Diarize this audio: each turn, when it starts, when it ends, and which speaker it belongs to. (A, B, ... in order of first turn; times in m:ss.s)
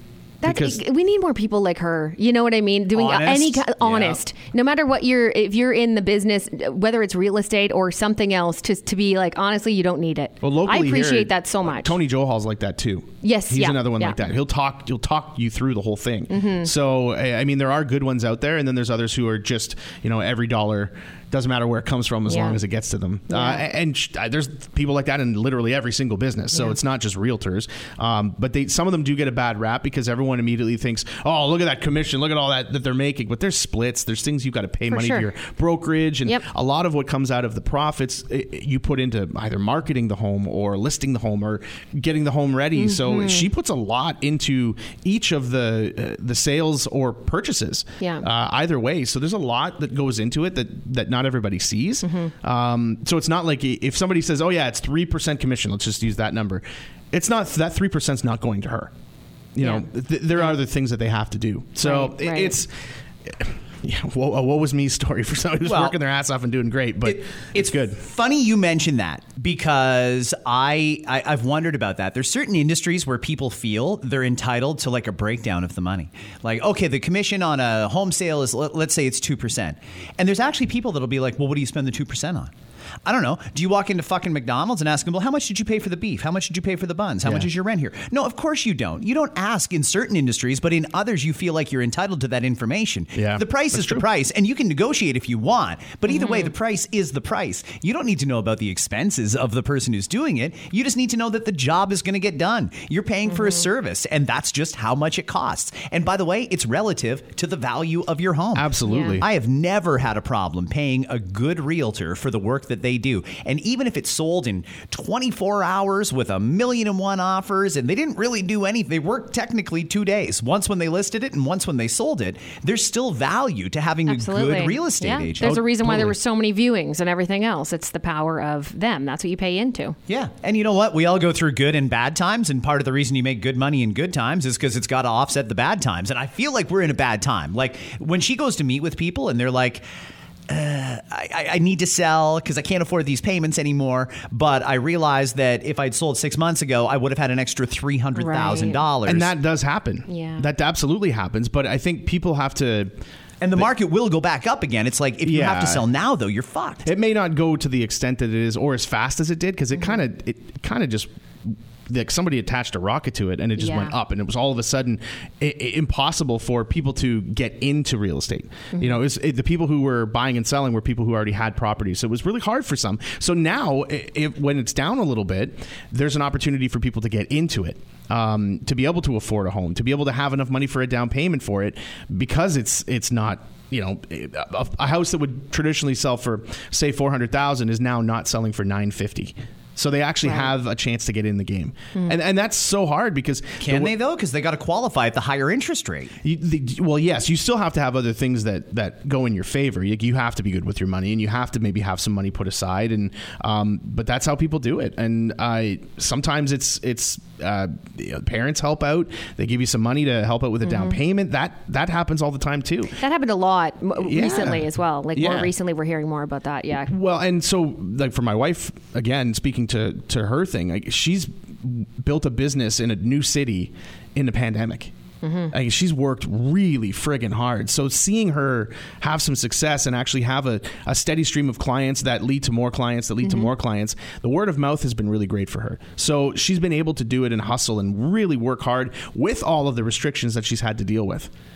0:00.4-0:12.0 A
0:00.4-0:00.8 B
0:02.9-0:04.2 C
0:10.4-0:58.9 B
0:13.2-0:14.2 A
0:16.3-0:16.7 A
0:22.3-0:22.6 A
0:23.3-0:23.6 A
0:34.9-0:35.3 A
0:42.8-0:43.5 A
0:52.0-0:52.3 A
0:59.6-1:02.7 B
0:59.6-1:00.5 A
1:01.8-1:02.6 A
1:03.3-1:08.0 B
1:05.6-1:06.0 C
1:07.1-1:22.5 C
1:23.0-2:05.5 C
1:27.2-1:27.5 B
1:33.2-1:34.0 B
1:36.1-1:36.5 A
1:43.3-1:43.6 A
1:48.6-1:49.3 B
1:48.9-1:49.2 A
2:04.1-2:10.0 A
2:05.4-2:06.2 B
2:10.1-2:19.8 C
2:20.5-2:29.3 C
2:28.2-2:28.8 A
2:29.1-2:32.9 B
2:30.1-2:30.5 A
2:33.4-2:36.9 C
2:35.2-2:35.8 B
2:36.8-3:13.9 B
2:43.6-2:44.0 A
2:48.7-2:49.0 A
3:13.6-3:16.1 C
3:16.2-3:33.0 B
3:30.6-3:31.0 A
3:33.0-3:36.9 A
3:34.0-3:35.5 B
3:36.9-3:44.9 B
3:45.2-3:45.5 A
3:45.5-4:01.3 B
3:53.2-3:53.5 A